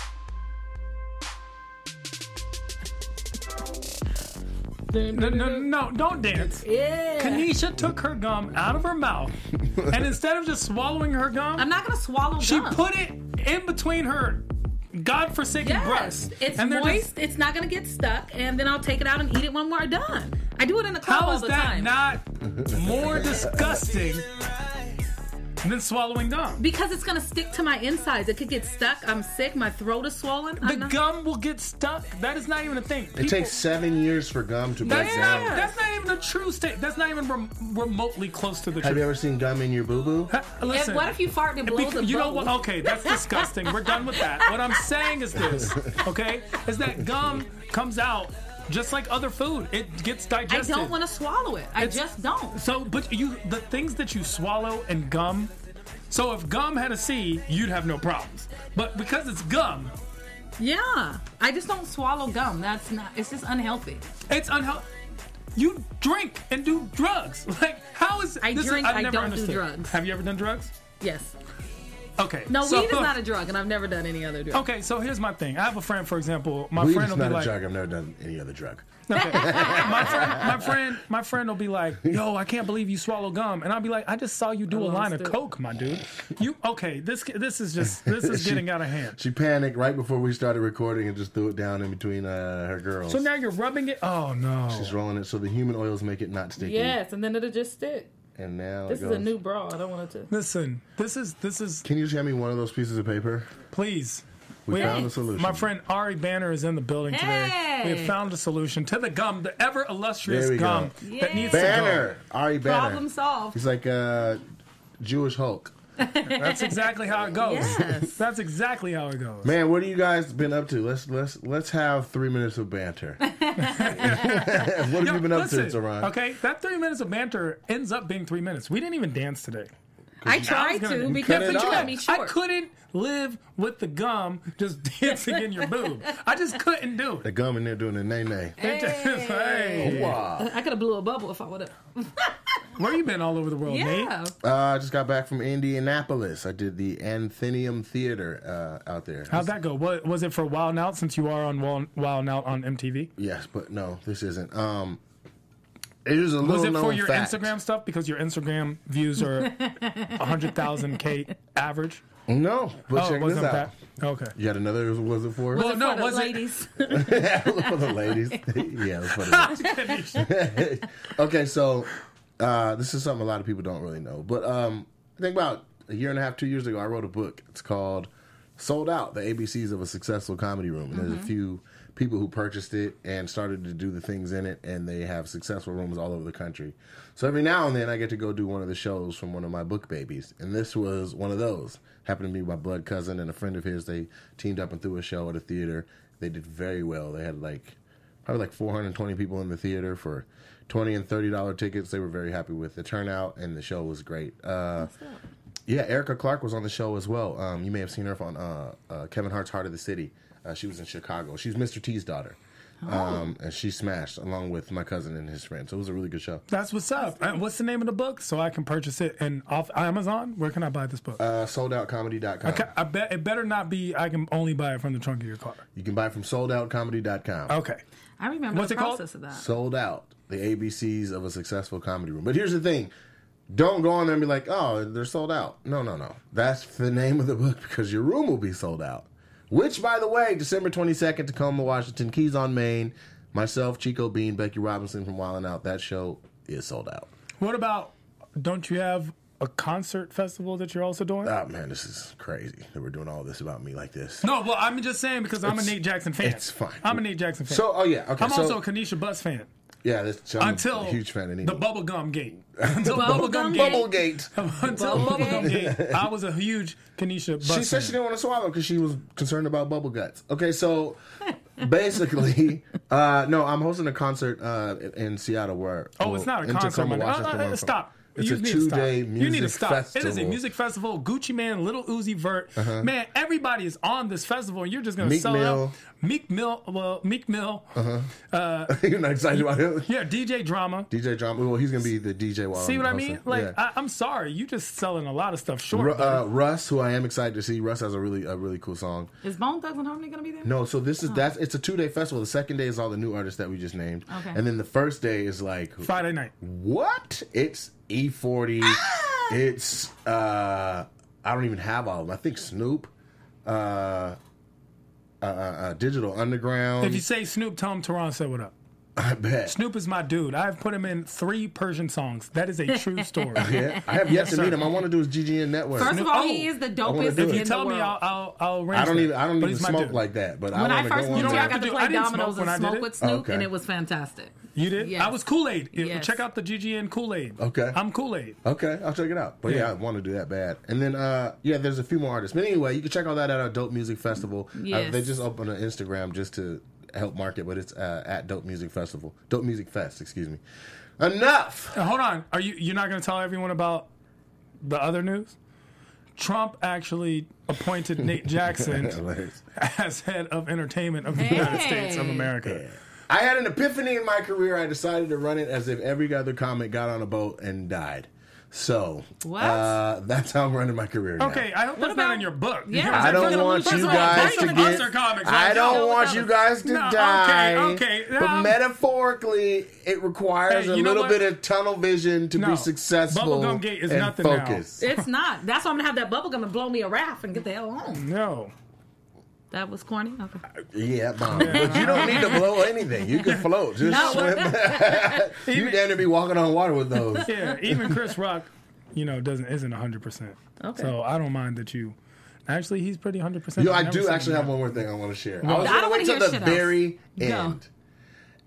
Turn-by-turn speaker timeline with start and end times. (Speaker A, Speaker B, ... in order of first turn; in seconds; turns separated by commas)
Speaker A: 4.9-5.7, Speaker B: 5.1-6.7, Speaker A: 6.6-7.5, Speaker B: 7.2-9.3, Speaker B: 9.9-11.7, Speaker A: 11.6-12.8, Speaker B: 12.4-17.1, Speaker A: 15.6-21.9, Speaker B: 21.0-24.3, Speaker C: 22.4-23.8, Speaker B: 25.6-26.6, Speaker A: 26.6-31.0, Speaker B: 30.6-33.5, Speaker C: 33.2-35.6, Speaker B: 34.8-39.0, Speaker A: 34.9-35.7, Speaker C: 38.8-40.3, Speaker B: 40.3-51.0, Speaker A: 40.6-44.5, Speaker C: 45.4-46.0, Speaker A: 50.5-52.6, Speaker B: 51.8-55.5, Speaker B: 56.1-60.0, Speaker A: 60.6-64.0, Speaker B: 64.3-64.9, Speaker B: 65.5-70.8, Speaker A: 68.4-70.0, Speaker A: 71.0-71.3, Speaker B: 72.2-73.2, Speaker A: 72.5-74.7, Speaker B: 74.5-77.5, Speaker C: 76.8-80.7, Speaker B: 79.1-89.2, Speaker A: 79.2-80.5, Speaker A: 84.7-85.4, Speaker C: 87.8-93.2, Speaker B: 93.1-95.0, Speaker C: 94.7-97.0, Speaker A: 96.6-98.1, Speaker C: 98.4-99.3, Speaker A: 98.9-100.3, Speaker B: 100.3-101.8, Speaker C: 101.8-103.5, Speaker B: 103.7-112.1, Speaker C: 104.7-105.7, Speaker A: 104.8-105.1, Speaker A: 107.1-108.2, Speaker C: 110.2-114.4, Speaker A: 111.0-112.0, Speaker A: 112.6-113.6, Speaker C: 115.0-115.7, Speaker A: 116.0-118.2, Speaker B: 116.2-119.5, Speaker C: 117.1-118.0, Speaker C: 119.4-126.1, Speaker A: 123.2-124.2, Speaker B: 123.6-129.7, Speaker C: 130.2-131.9, Speaker A: 130.3-132.3, Speaker B: 130.3-137.3, Speaker A: 135.1-136.1, Speaker C: 137.2-138.6, Speaker B: 138.6-140.2, Speaker A: 138.6-142.6, Speaker C: 139.8-140.5, Speaker B: 142.8-144.1, Speaker A: 143.7-144.3, Speaker C: 144.4-149.5, Speaker B: 149.3-153.1, Speaker C: 153.2-155.0, Speaker C: 156.1-157.5, Speaker B: 156.4-162.0, Speaker A: 159.3-161.0, Speaker C: 162.3-163.7, Speaker B: 162.9-164.3, Speaker C: 164.3-165.7, Speaker B: 165.5-166.5, Speaker A: 165.5-168.4, Speaker C: 166.9-204.9, Speaker B: 169.2-170.3, Speaker A: 169.6-170.0, Speaker A: 180.9-181.3, Speaker A: 204.8-205.2, Speaker C: 205.7-216.4, Speaker A: 212.8-213.2, Speaker B: 216.5-221.2, Speaker A: 217.0-217.4, Speaker C: 221.2-222.7, Speaker B: 222.4-225.6, Speaker C: 225.8-227.6, Speaker B: 227.5-227.8, Speaker A: 228.2-229.5, Speaker B: 228.5-229.0, Speaker C: 229.3-232.9, Speaker C: 233.5-247.1, Speaker B: 247.4-251.3, Speaker C: 251.2-254.3, Speaker B: 254.2-257.7, Speaker C: 255.4-258.6, Speaker B: 258.2-259.5, Speaker C: 259.8-261.6, Speaker B: 260.4-268.0, Speaker C: 262.6-266.1, Speaker A: 262.9-263.9, Speaker A: 264.7-265.6, Speaker C: 267.4-271.0, Speaker C: 271.6-280.4, Speaker B: 276.0-288.8, Speaker C: 282.6-282.9, Speaker C: 285.0-285.8, Speaker C: 287.8-288.1, Speaker C: 288.7-289.9, Speaker B: 289.9-290.9, Speaker C: 290.9-293.6, Speaker B: 292.5-296.3, Speaker C: 295.7-299.1, Speaker A: 299.2-300.5, Speaker C: 300.4-312.9, Speaker A: 304.1-304.4, Speaker B: 305.8-306.3, Speaker A: 308.6-309.3, Speaker C: 313.4-314.2, Speaker C: 315.2-317.1, Speaker B: 316.8-318.5, Speaker C: 319.0-319.6, Speaker B: 319.5-324.7, Speaker A: 322.7-323.8, Speaker C: 323.4-326.0, Speaker A: 325.8-328.0, Speaker B: 325.8-330.0, Speaker C: 326.8-327.5, Speaker C: 328.7-331.6, Speaker A: 330.5-335.1, Speaker B: 331.1-332.9, Speaker C: 333.0-333.5, Speaker B: 334.6-338.4, Speaker A: 335.8-336.2, Speaker C: 337.4-337.8, Speaker C: 338.4-350.4, Speaker B: 339.4-339.7, Speaker A: 344.6-345.0, Speaker C: 351.0-351.8, Speaker B: 351.7-353.9, Speaker B: 354.6-355.4, Speaker B: 356.2-359.0, Speaker C: 358.0-359.4, Speaker B: 359.6-362.6, Speaker A: 361.1-362.3, Speaker C: 362.4-371.5, Speaker A: 369.2-369.8, Speaker B: 371.2-378.6, Speaker A: 371.8-374.9, Speaker C: 372.9-384.8, Speaker A: 375.4-376.3, Speaker B: 380.5-381.2, Speaker B: 382.4-384.9, Speaker A: 384.8-388.1, Speaker B: 387.9-388.5, Speaker A: 389.5-390.4, Speaker C: 390.6-398.0, Speaker B: 391.3-392.5, Speaker A: 391.4-392.6, Speaker B: 393.3-394.6, Speaker A: 393.8-395.2, Speaker B: 395.4-396.0, Speaker A: 397.1-397.6, Speaker B: 397.2-404.8, Speaker A: 400.6-400.9, Speaker C: 403.6-407.7, Speaker B: 405.4-405.8, Speaker A: 405.6-407.6